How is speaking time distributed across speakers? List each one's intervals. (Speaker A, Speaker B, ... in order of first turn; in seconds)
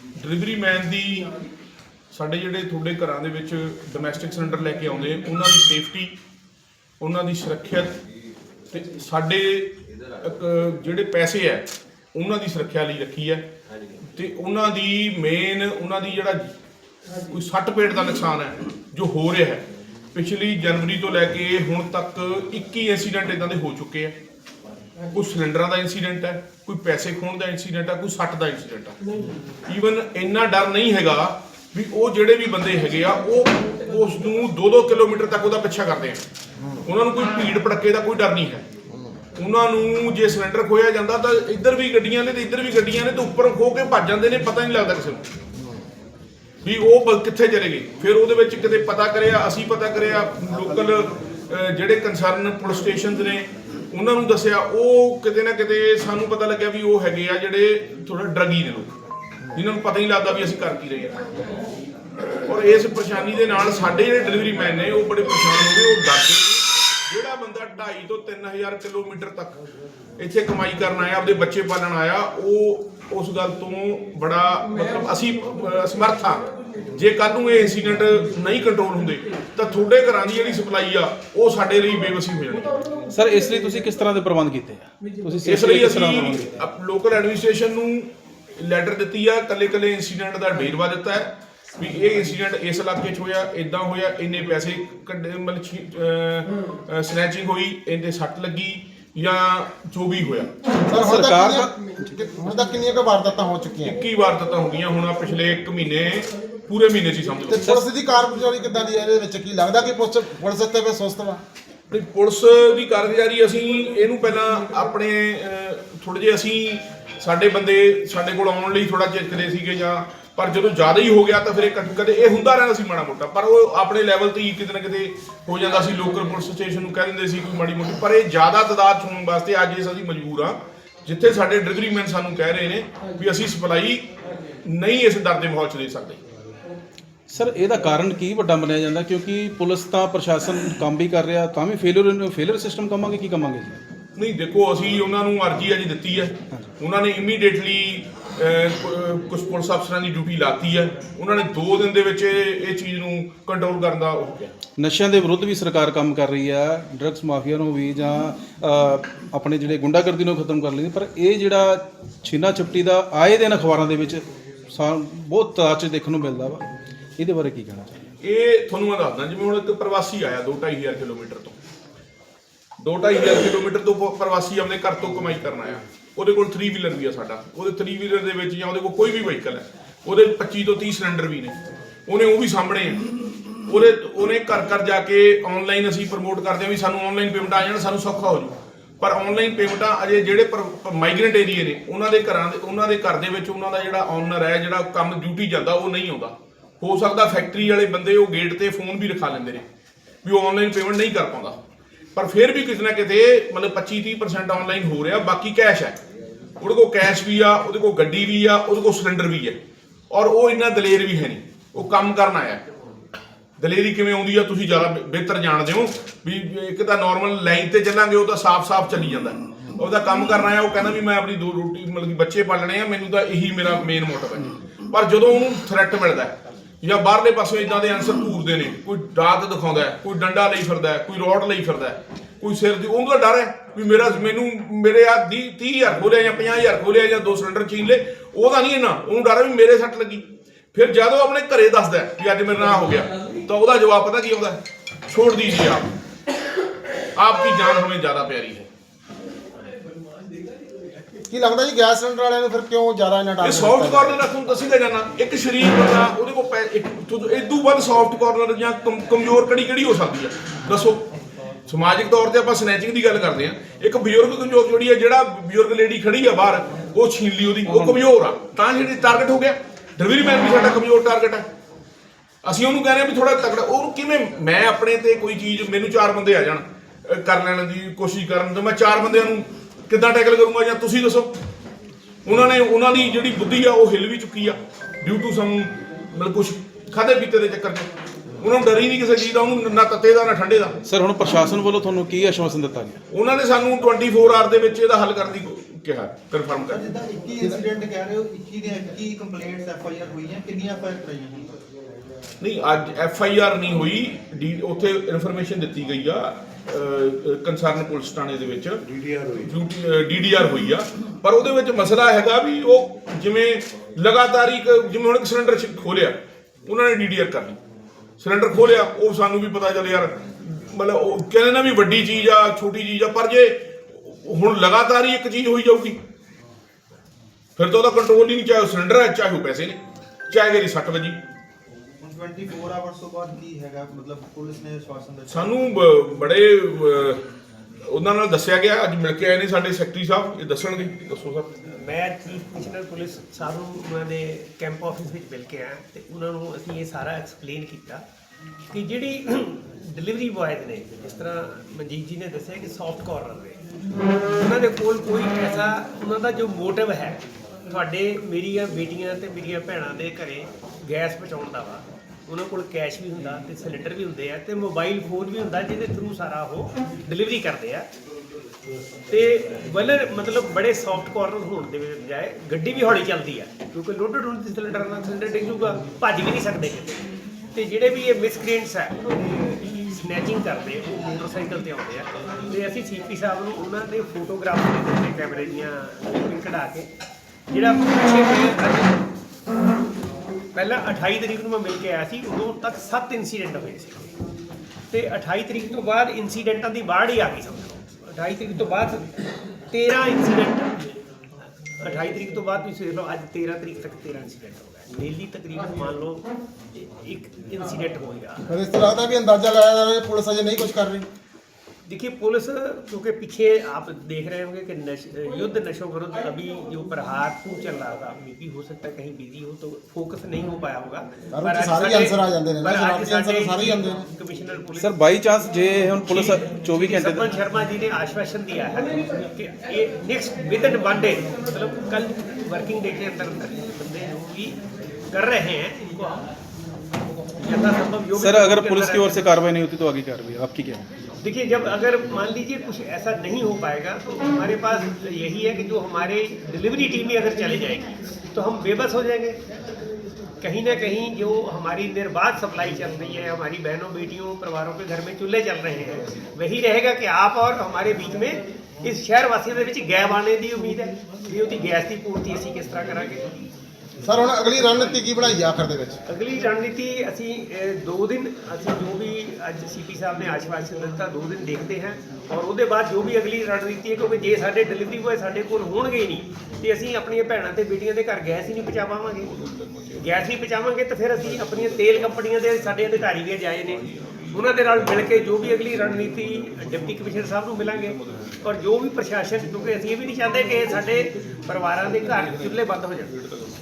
Speaker A: 0.2-1.4, 2.1-6.1, 7.0-8.0, 8.7-13.5, 14.1-16.5, 17.3-24.1, 25.1-29.0, 29.6-36.2, 36.8-38.6, 39.4-45.2, 46.6-58.9, 59.5-61.3, 62.5-66.5, 67.1-69.6, 70.2-82.8, 85.4-100.5, 103.8-107.8, 111.9-134.1, 134.6-136.2, 144.2-154.5, 168.2-171.6, 172.8-183.0, 183.7-199.6, 200.2-201.6, 202.1-206.0, 206.6-209.6, 210.1-212.6, 213.6-245.9, 247.1-248.7, 253.4-261.1, 261.7-271.5, 272.4-281.3, 282.2-287.9, 288.4-290.8, 293.1-296.8, 302.4-317.6, 318.2-326.0, 327.6-331.2, 335.3-337.2, 337.8-341.6, 479.4-480.0
Speaker B: 83.1-86.5, 100.9-102.1, 137.3-143.8, 154.8-167.9, 267.6-268.0, 290.8-293.0, 424.8-427.3, 438.1-440.9
Speaker C: 100.9-104.0, 107.5-111.4, 251.3-254.2, 408.5-411.1, 421.3-424.0, 464.0-466.0
Speaker D: 296.7-301.5, 332.0-335.6
Speaker E: 341.7-348.0, 348.7-367.9, 369.1-386.9, 387.5-389.1, 390.5-394.1, 394.9-400.9, 401.8-408.4, 411.9-425.0, 426.1-434.6, 435.1-436.2, 437.2-439.3, 441.2-449.4, 450.4-463.3, 466.1-479.3, 480.0-493.2